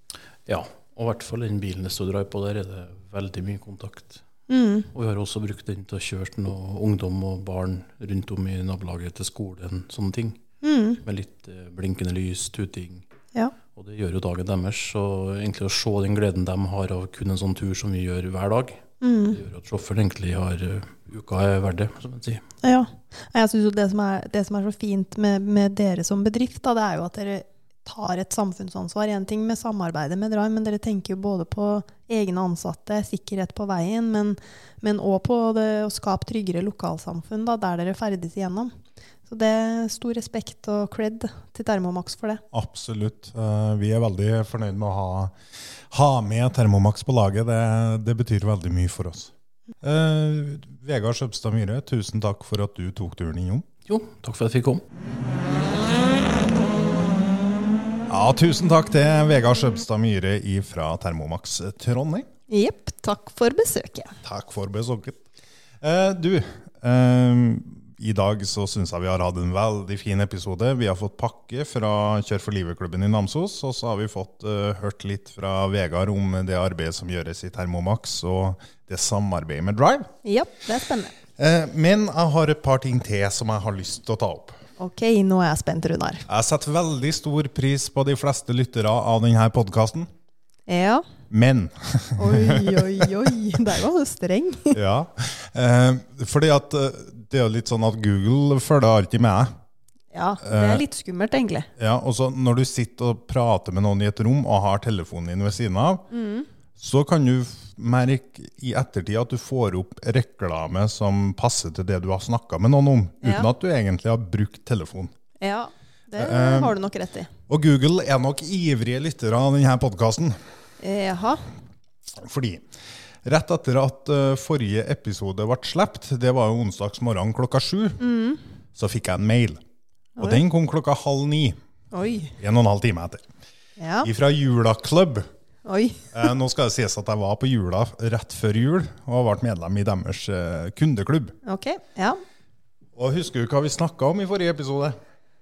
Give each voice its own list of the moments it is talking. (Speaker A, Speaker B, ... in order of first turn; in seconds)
Speaker A: 0.5-4.2, 4.9-10.4, 11.0-13.1, 13.8-22.4, 53.9-54.8
Speaker B: 4.5-4.9, 10.6-11.0, 19.0-19.4, 22.6-38.7, 39.3-42.4, 62.5-64.1, 80.2-81.1, 84.8-86.2, 90.7-91.0, 92.2-94.8, 100.1-101.7, 106.1-106.5, 113.2-113.5, 115.4-117.3, 120.8-121.4, 128.0-128.4, 131.9-132.3, 133.8-134.1, 135.7-136.2, 141.4-142.2
Speaker C: 42.5-45.3, 45.9-49.3, 49.8-53.6, 58.1-62.3, 64.2-65.2, 65.8-80.1, 81.4-84.6, 86.3-90.1, 91.3-93.1, 94.7-99.5, 100.4-100.8, 101.8-106.0, 106.8-115.1, 116.2-116.8, 117.5-120.4, 122.2-122.6, 123.2-128.0, 128.8-129.6, 130.2-131.6, 132.4-133.2, 134.0-135.3, 136.1-141.3, 143.0-145.0